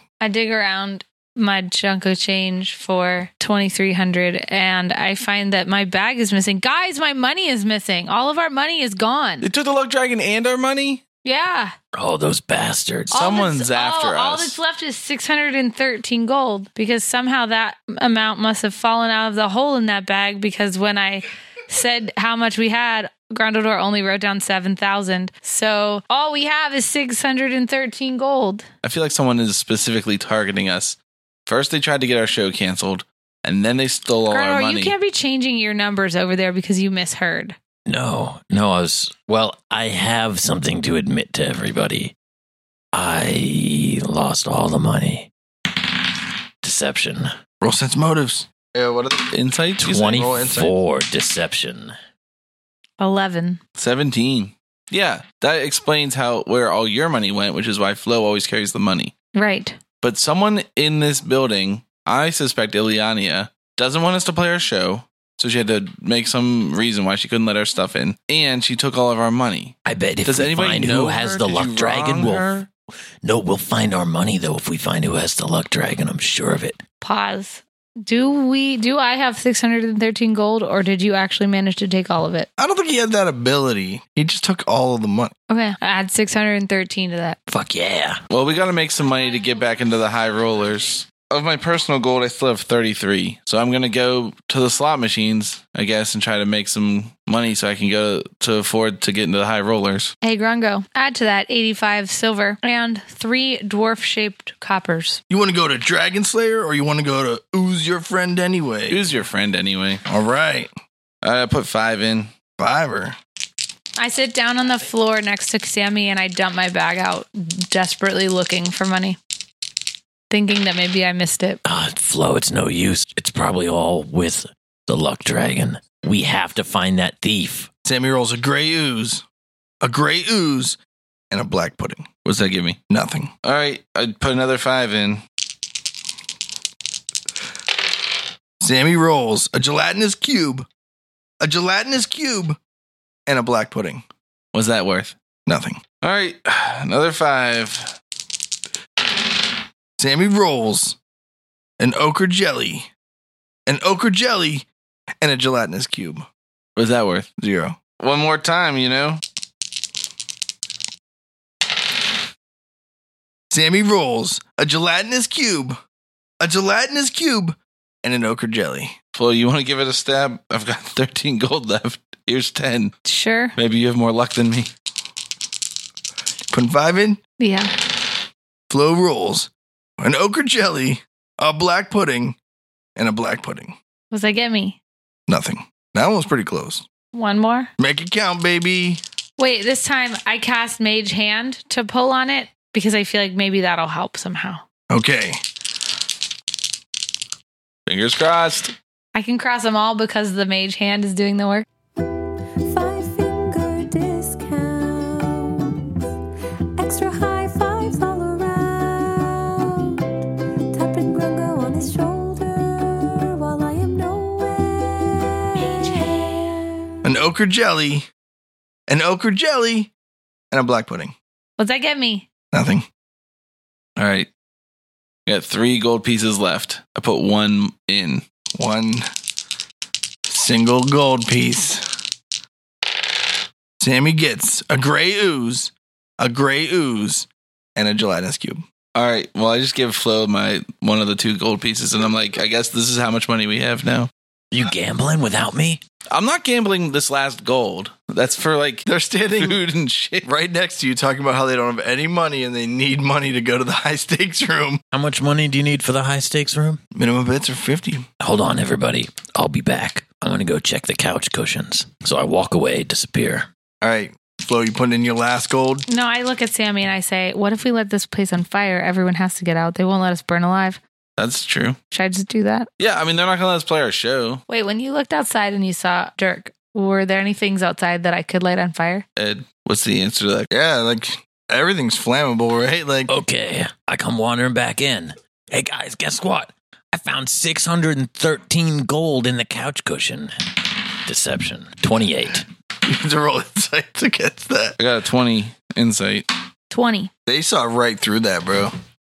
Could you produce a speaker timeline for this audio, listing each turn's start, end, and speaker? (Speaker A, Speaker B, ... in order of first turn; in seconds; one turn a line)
Speaker A: 0.2-9.4
Speaker B: 9.4-11.0
Speaker A: 11.2-11.8
Speaker C: 11.9-13.4
Speaker B: 13.1-14.6
Speaker A: 13.1-28.7
Speaker B: 28.8-34.9
Speaker A: 34.3-37.6
Speaker C: 37.9-42.1
Speaker C: 42.9-45.3
Speaker C: 46.6-47.3
Speaker D: 47.6-49.4
Speaker B: 49.3-50.7
Speaker C: 49.8-52.0
Speaker D: 50.2-50.7
Speaker A: 53.0-53.6
Speaker B: 53.8-59.1
Speaker A: 59.3-59.8
Speaker B: 60.0-72.7
Speaker C: 69.9-72.5
Speaker C: 73.2-76.8
Speaker A: 77.0-82.5
Speaker D: 82.6-85.3
Speaker A: 85.5-87.4
Speaker C: 87.5-88.2
Speaker B: 88.3-100.1
Speaker A: 100.2-105.2
Speaker D: 105.3-109.0
Speaker B: 108.9-110.0
Speaker D: 110.1-110.7
Speaker B: 111.2-112.3
Speaker D: 112.6-113.2
Speaker A: 114.0-119.2
Speaker A: 120.3-121.6
Speaker C: 121.7-127.7
Speaker D: 127.8-129.2
Speaker D: 129.8-130.8
Speaker D: 131.3-132.1
Speaker B: 132.2-132.8
Speaker D: 132.9-133.3
Speaker B: 133.4-135.2
Speaker D: 138.6-140.7
Speaker D: 141.4-142.6
Speaker D: 143.3-144.0
Speaker B: 144.5-145.2
Speaker D: 145.5-145.8
Speaker B: 146.0-147.9
Speaker D: 150.0-151.0
Speaker D: 151.8-152.9
Speaker D: 153.7-154.7
Speaker D: 155.2-156.3
Speaker B: 156.8-157.3
Speaker D: 157.4-157.8
Speaker B: 158.0-159.2
Speaker D: 163.5-165.8
Speaker D: 166.4-169.0
Speaker B: 169.2-172.9
Speaker A: 173.1-173.6
Speaker B: 173.6-174.7
Speaker D: 176.5-177.2
Speaker A: 177.4-177.7
Speaker D: 178.7-182.4
Speaker D: 183.0-183.8
Speaker A: 184.1-184.8
Speaker D: 185.3-186.9
Speaker A: 187.1-187.7
Speaker D: 187.8-189.0
Speaker A: 189.4-194.6
Speaker D: 194.9-195.4
Speaker B: 197.9-198.8
Speaker A: 199.2-201.7
Speaker E: 202.6-206.1
Speaker E: 206.8-216.9
Speaker D: 217.0-218.1
Speaker D: 218.9-219.9
Speaker D: 220.5-221.1
Speaker A: 221.6-222.3
Speaker D: 222.5-222.9
Speaker B: 224.0-224.3
Speaker B: 225.3-228.2
Speaker D: 228.6-229.1
Speaker D: 230.3-231.9
Speaker D: 233.8-238.6
Speaker B: 238.9-244.1
Speaker C: 244.5-245.8
Speaker B: 246.1-250.3
Speaker D: 248.9-249.6
Speaker D: 250.2-254.8
Speaker C: 254.9-256.8
Speaker D: 256.9-258.1
Speaker C: 258.2-263.5
Speaker D: 263.8-265.9
Speaker A: 265.9-270.8
Speaker B: 271.2-271.8
Speaker A: 271.9-272.7
Speaker B: 272.8-274.4
Speaker A: 274.5-279.1
Speaker B: 279.2-280.5
Speaker D: 280.5-283.1
Speaker C: 283.1-290.3
Speaker C: 291.1-292.5
Speaker D: 292.8-294.8
Speaker B: 294.8-296.3
Speaker A: 296.7-297.1
Speaker D: 297.3-298.7